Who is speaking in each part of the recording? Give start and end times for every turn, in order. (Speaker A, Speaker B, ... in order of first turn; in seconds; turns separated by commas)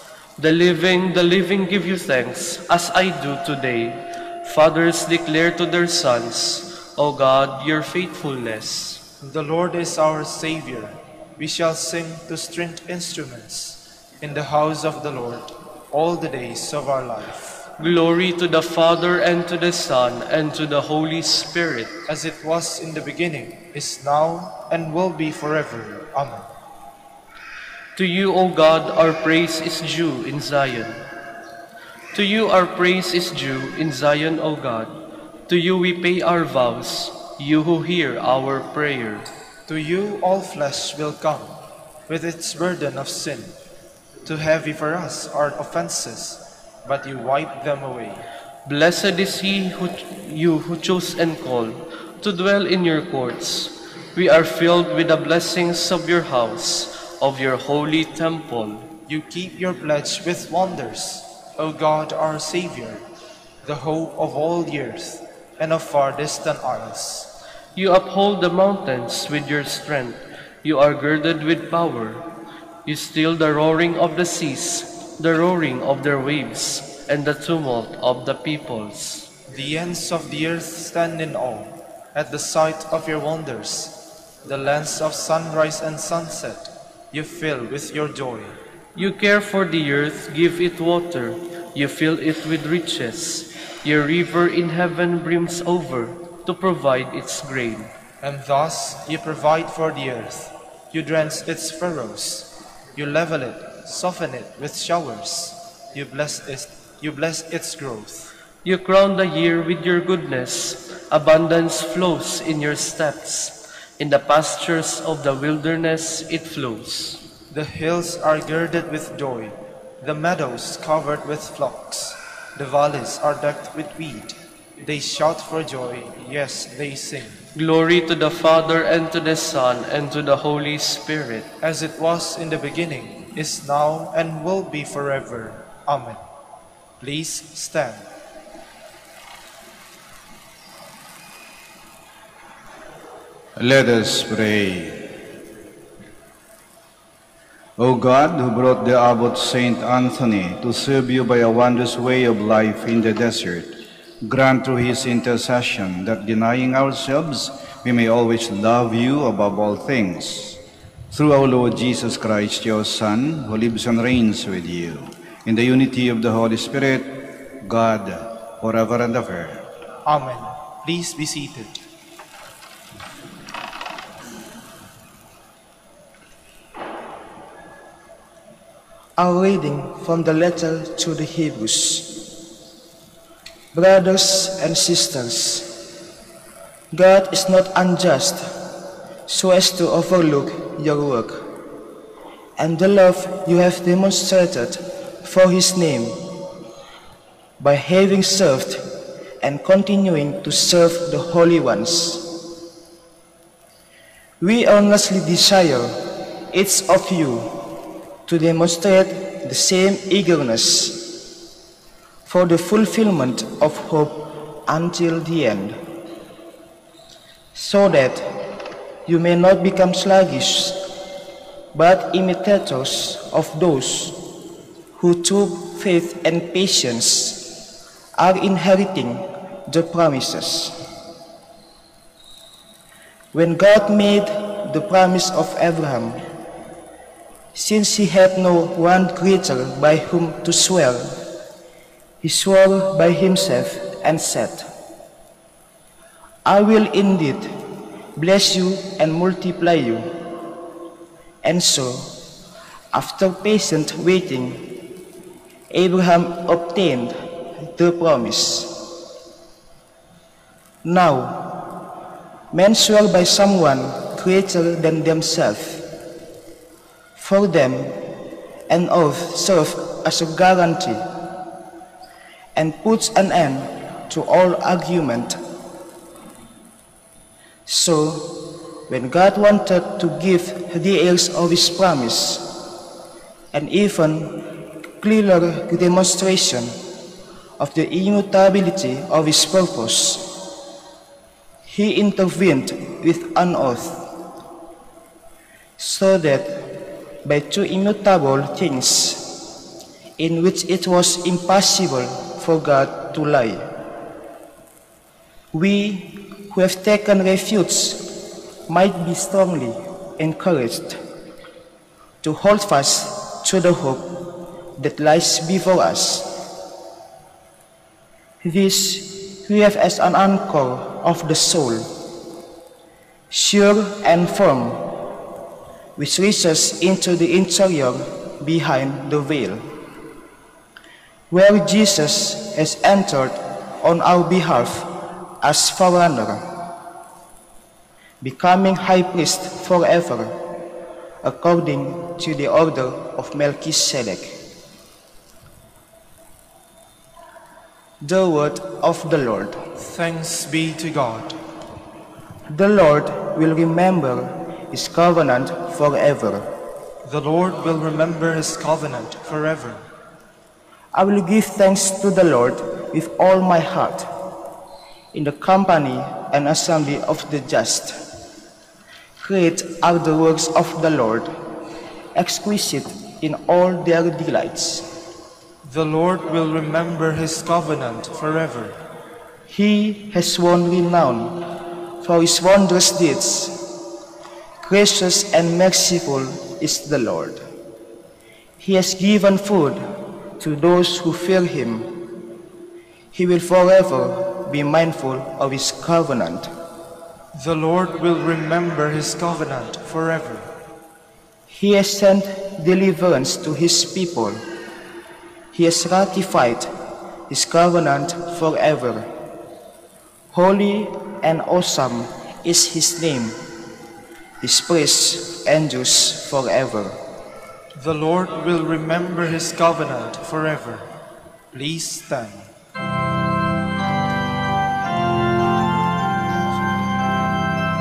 Speaker A: 0.4-9.0, Speaker B: 9.2-17.7, Speaker A: 17.8-21.9, Speaker B: 22.1-26.5, Speaker A: 27.9-31.0, Speaker A: 32.1-35.0, Speaker A: 35.5-39.3, Speaker B: 39.7-41.6, Speaker B: 42.1-43.5, Speaker B: 44.2-48.2, Speaker A: 48.6-58.9, Speaker B: 59.1-63.0, Speaker B: 63.6-67.3, Speaker A: 67.7-72.3, Speaker A: 72.8-79.3, Speaker B: 79.5-88.6, Speaker A: 88.9-97.9, Speaker B: 98.2-108.3, Speaker A: 108.6-117.2, Speaker B: 117.5-127.4, Speaker A: 127.5-131.5, Speaker B: 131.6-136.2, Speaker B: 137.0-138.1, Speaker C: 143.6-145.0, Speaker C: 147.8-160.6, Speaker C: 161.1-169.6, Speaker B: 170.0-171.8, Speaker D: 179.2-182.2, Speaker D: 183.7-185.7, Speaker D: 186.9-188.5, Speaker D: 189.3-191.4, Speaker D: 192.6-196.2, Speaker D: 197.6-198.8, Speaker D: 199.4-202.3, Speaker D: 204.4-207.5, Speaker D: 208.2-211.1, Speaker D: 212.2-215.8, Speaker D: 217.5-218.3, Speaker D: 219.1-220.8, Speaker D: 221.7-224.2, Speaker D: 224.9-227.4, Speaker D: 228.2-230.7, Speaker D: 233.3-236.2, Speaker D: 237.5-241.2, Speaker D: 242.2-244.7, Speaker D: 246.4-247.5, Speaker D: 248.2-250.1, Speaker D: 251.4-252.1, Speaker D: 252.9-254.7, Speaker D: 255.7-258.7, Speaker D: 260.8-261.5, Speaker D: 262.5-265.8, Speaker D: 267.2-267.9, Speaker D: 268.7-271.0, Speaker D: 272.5-275.4, Speaker D: 277.6-282.4, Speaker D: 283.5-284.4, Speaker D: 285.0-286.7, Speaker D: 287.6-290.3, Speaker D: 291.6-294.0, Speaker D: 295.8-296.6, Speaker D: 297.2-299.3, Speaker D: 300.2-303.6, Speaker D: 305.5-308.0, Speaker D: 308.7-311.0, Speaker D: 312.2-314.1, Speaker D: 314.8-316.3, Speaker D: 318.4-321.9, Speaker D: 323.3-324.9, Speaker D: 325.9-329.6, Speaker D: 331.3-334.9, Speaker D: 335.4-336.4, Speaker D: 338.2-340.4, Speaker D: 341.2-344.4, Speaker D: 348.0-349.6, Speaker B: 349.8-351.3, Speaker D: 352.5-356.5, Speaker B: 357.0-359.8, Speaker D: 360.9-364.1, Speaker D: 365.1-368.0, Speaker D: 369.2-371.3, Speaker D: 372.1-374.9, Speaker B: 375.6-378.8, Speaker D: 379.5-381.4, Speaker D: 382.0-383.6, Speaker D: 384.6-387.4, Speaker D: 388.6-389.8, Speaker D: 390.4-391.9, Speaker D: 393.1-396.5, Speaker B: 397.3-400.5, Speaker D: 401.5-404.4, Speaker D: 405.5-406.7, Speaker D: 407.3-409.1, Speaker D: 410.3-413.4, Speaker D: 414.4-417.0, Speaker B: 417.7-420.9, Speaker B: 421.5-422.5